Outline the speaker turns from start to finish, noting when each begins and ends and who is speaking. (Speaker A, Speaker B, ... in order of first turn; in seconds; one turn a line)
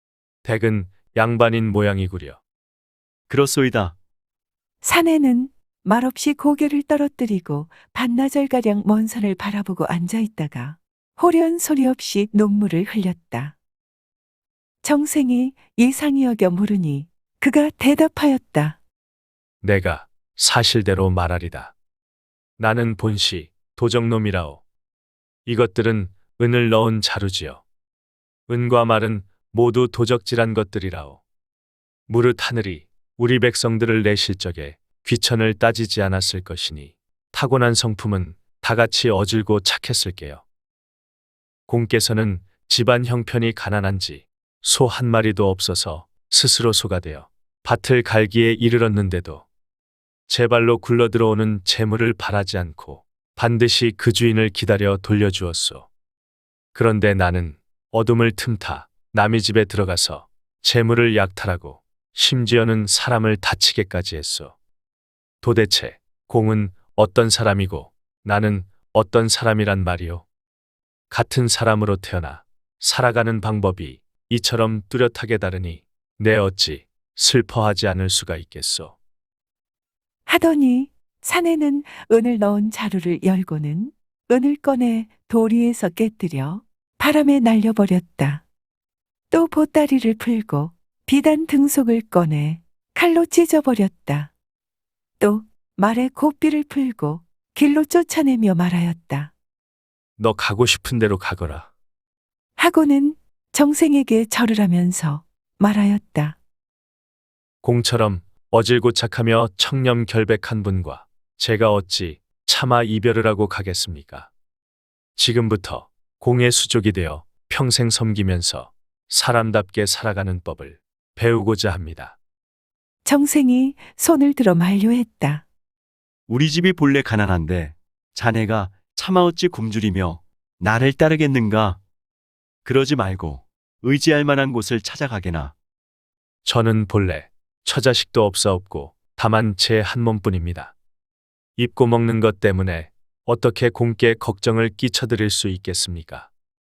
Speaker A: 0.4-2.4
Speaker B: 3.3-4.0
Speaker C: 4.8-13.5
Speaker C: 14.8-18.8
Speaker A: 19.6-21.7
Speaker A: 22.6-24.6
Speaker A: 25.4-27.6
Speaker A: 28.5-31.2
Speaker A: 32.1-40.4
Speaker A: 41.7-49.4
Speaker A: 50.3-55.9
Speaker A: 56.7-64.5
Speaker A: 65.4-70.2
Speaker A: 71.1-78.9
Speaker C: 80.3-88.4
Speaker C: 89.3-94.3
Speaker C: 95.2-99.3
Speaker A: 100.2-101.7
Speaker C: 102.6-106.3
Speaker A: 107.6-114.3
Speaker A: 115.2-122.2
Speaker C: 123.0-125.4
Speaker B: 126.3-131.8
Speaker B: 132.7-135.5
Speaker A: 136.4-140.7
Speaker A: 141.6-146.3